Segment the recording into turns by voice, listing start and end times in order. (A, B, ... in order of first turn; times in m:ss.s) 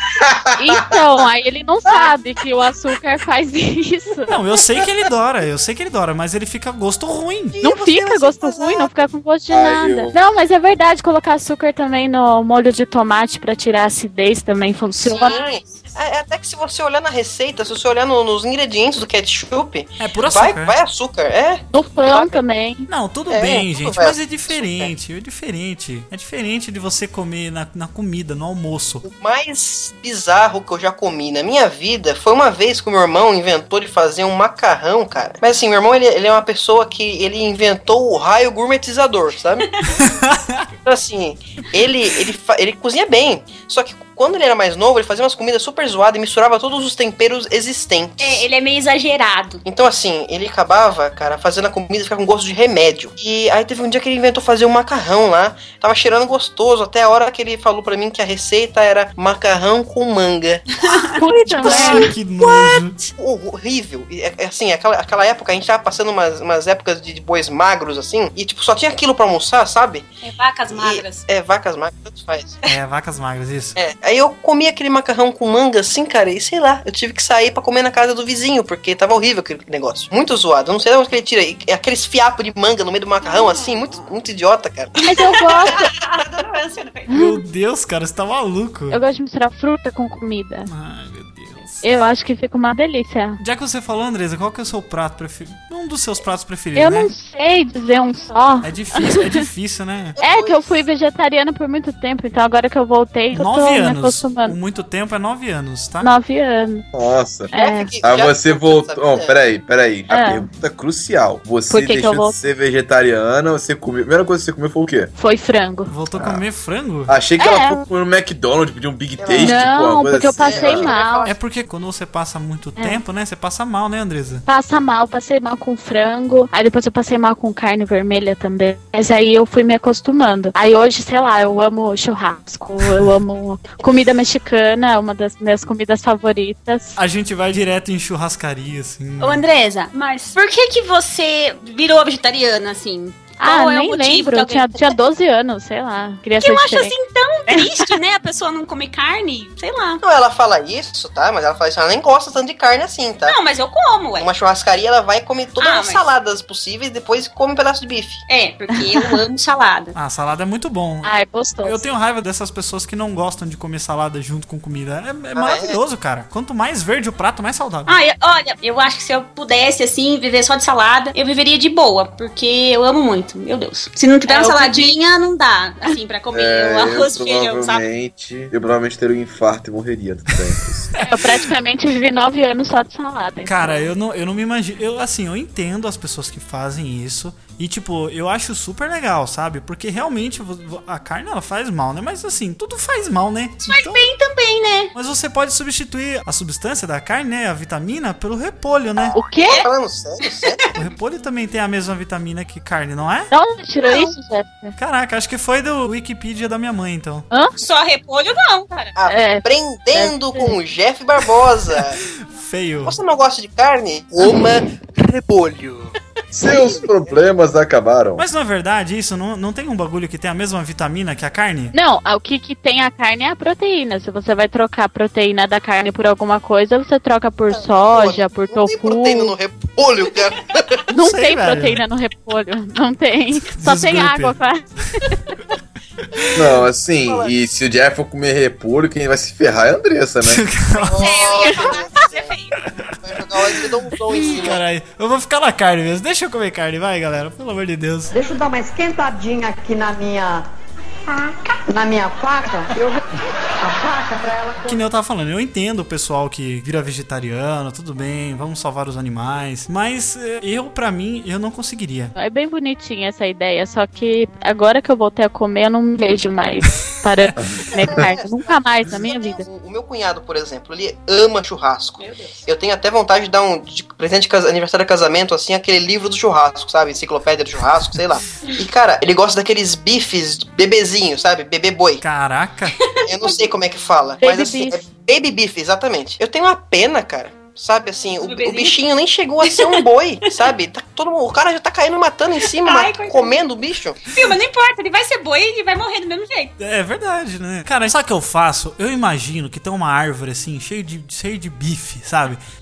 0:00.2-0:01.0 A
0:00.6-0:04.4 B
0:04.3-0:07.6 C
0:07.6-0:09.0 D
0:07.6-0:15.4 B
0:09.5-0:10.2 A
0:15.0-0:22.4 D
0:20.0-0:20.8 C
0:21.7-0:22.9 B
0:22.9-0:29.0 C
0:23.3-0:24.9 D
0:29.0-0:39.8 D
0:40.0-0:40.7 C
0:40.8-0:48.4 D
0:48.2-0:49.6 E
0:49.6-1:02.5 D
1:01.2-1:02.1 B
1:01.5-1:03.0 C
1:03.1-1:10.1 D
1:10.2-1:11.2 E
1:10.7-1:12.6 D
1:12.7-1:13.8 C
1:13.8-1:25.9 D
1:23.2-1:23.8 E
1:25.0-1:25.8 B
1:25.7-1:27.1 E
1:27.1-1:29.0 C
1:28.9-1:30.7 B
1:30.7-1:31.9 C
1:31.8-1:33.4 B
1:33.4-1:37.1 C
1:36.8-1:39.4 B
1:38.6-1:40.2 C
1:40.2-1:40.7 D
1:40.2-1:44.6 B
1:43.3-1:46.1 C
1:46.0-1:46.9 B
1:46.9-1:47.5 A
1:47.5-1:47.9 B
1:47.5-1:49.4 D
1:48.0-1:55.1 A
1:50.1-1:50.5 B
1:51.7-1:52.4 B
1:55.2-1:55.9 B
1:55.9-1:57.1 C
1:57.1-2:01.0 A
1:57.4-1:57.8 B
1:59.2-1:59.6 D
1:59.4-2:01.3 B
2:00.4-2:01.4 D
2:01.2-2:04.4 C
2:04.5-2:17.0 B
2:17.0-2:19.4 C
2:19.2-2:25.0 E
2:23.4-2:26.9 B
2:26.4-2:30.0 E
2:27.5-2:27.9 B
2:30.0-2:33.4 D
2:33.3-2:34.3 E
2:34.2-2:38.2 D
2:35.6-2:36.0 E
2:38.3-2:40.0 E
2:40.0-2:41.1 C
2:41.0-2:41.8 B
2:41.6-2:48.0 C
2:45.4-2:45.8 D
2:47.9-2:57.8 E
2:54.3-2:54.9 B
2:54.4-2:54.8 D
2:56.3-3:00.9 A
3:00.9-3:01.2 C
3:01.0-3:03.9 B
3:03.4-3:14.1 C
3:13.7-3:14.9 E
3:14.9-3:19.2 C
3:19.1-3:19.6 B
3:19.4-3:20.7 D
3:20.8-3:23.3 C
3:23.3-3:24.8 B
3:24.8-3:27.2 C
3:27.6-3:28.9 E
3:29.0-3:32.0 D
3:29.1-3:30.6 B
3:32.0-3:33.0 C
3:32.8-3:36.8 D
3:36.3-3:38.3 A
3:38.2-3:41.7 C
3:41.7-3:49.4 B
3:47.5-3:50.8 D
3:50.9-3:55.2 B
3:50.9-3:51.8 C
3:53.5-3:54.4 C
3:56.4-4:00.4 A
3:57.0-3:57.4 D
4:00.2-4:01.2 C
4:00.8-4:02.3 D
4:00.9-4:02.6 E
4:02.6-4:03.0 C
4:03.0-4:04.6 D
4:04.1-4:08.1 C
4:08.1-4:10.4 F
4:11.7-4:13.0 F
4:13.6-4:14.8 F
4:14.6-4:22.1 C
4:22.2-4:29.5 B
4:27.4-4:28.0 A
4:27.8-4:42.0 D
4:32.0-4:32.5 E
4:42.0-4:42.8 C
4:42.8-4:43.5 E
4:43.1-4:54.0 D
4:44.2-4:44.8 B
4:48.2-4:48.8 E
4:49.4-4:49.8 E
4:52.6-4:53.4 E
4:54.1-4:56.5 E
4:56.6-5:02.4 C